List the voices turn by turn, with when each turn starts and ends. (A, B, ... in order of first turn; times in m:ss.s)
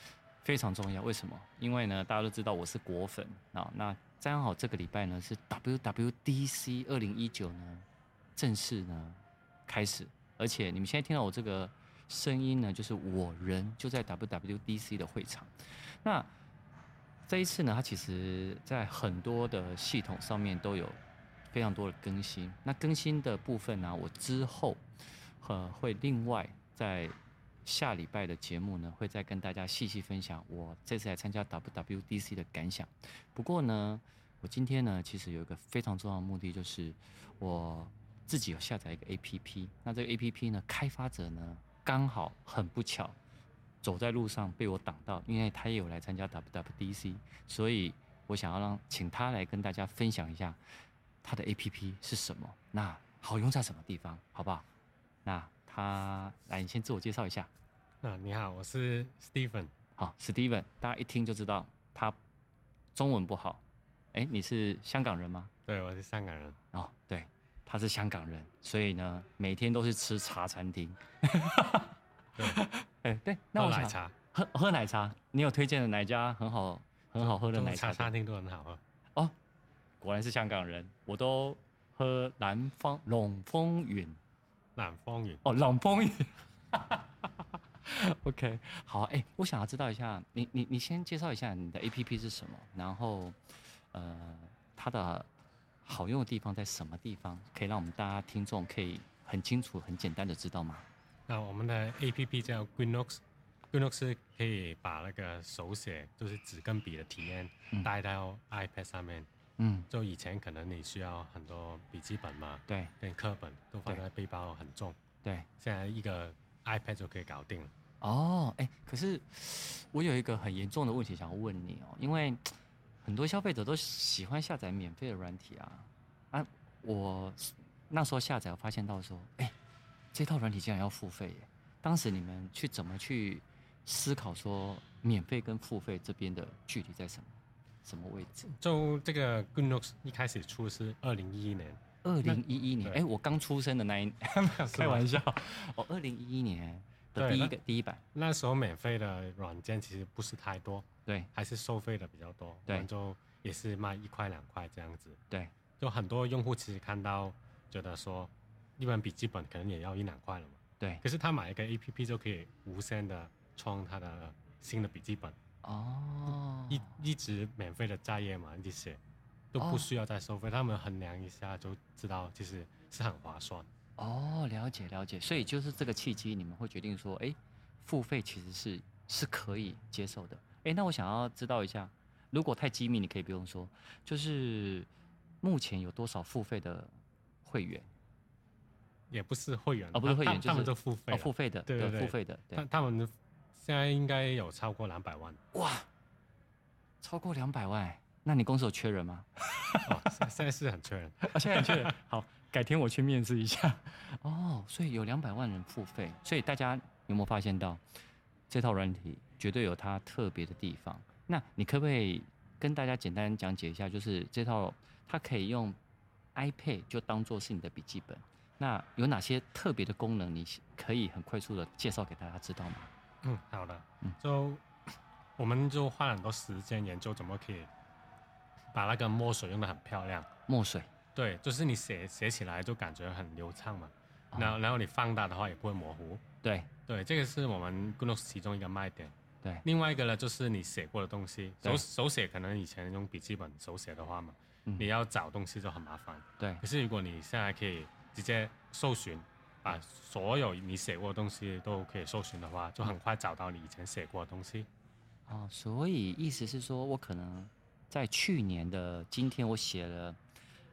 0:00.4-0:16.3 A
0:17.3-0:21.0 A
0:21.5-0:24.8 A
0:25.4-0:43.2 A
0:43.8-0:50.6 A
0:51.2-0:54.6 A
0:55.2-0:57.5 A
0:58.0-0:59.7 B
1:00.0-1:02.2 A
1:02.9-1:03.6 A
1:04.1-1:05.5 A
1:05.6-1:06.6 B
1:06.7-1:18.1 A
1:13.6-1:14.1 B
1:17.2-1:18.8 B
1:20.0-1:24.2 A
1:24.8-1:25.4 B
1:25.4-1:33.4 A
1:33.9-1:35.3 A
1:35.8-1:40.9 A
1:41.3-1:49.3 B
1:49.6-1:49.9 A
1:49.9-1:55.0 B
1:52.7-1:52.9 A
1:55.6-1:57.7 B
1:58.0-2:02.5 A
2:03.0-2:09.5 A
2:10.1-2:18.5 A
2:18.4-2:23.0 B
2:22.0-2:28.0 A
2:24.4-2:25.0 B
2:27.2-2:27.5 B
2:28.1-2:35.2 B
2:35.8-2:45.4 B
2:45.6-2:47.0 A
2:46.7-2:49.0 B
2:49.5-2:53.7 B
2:49.6-2:49.9 A
2:54.0-3:04.9 A
3:05.4-3:06.9 A
3:07.4-3:07.9 A
3:09.1-3:15.4 B
3:09.9-3:12.6 A
3:15.5-3:15.9 A
3:17.0-3:19.9 A
3:19.8-3:21.9 B
3:21.3-3:27.8 A
3:28.5-3:35.8 A
3:36.3-3:42.9 A
3:43.2-3:44.6 B
3:45.4-3:47.7 B
3:48.7-3:50.3 B
3:50.5-3:50.9 A
3:51.1-3:56.2 B
3:54.3-3:54.6 A
3:56.4-3:56.7 A
3:56.9-3:59.1 B
3:59.6-4:14.7 B
4:15.3-4:20.2 A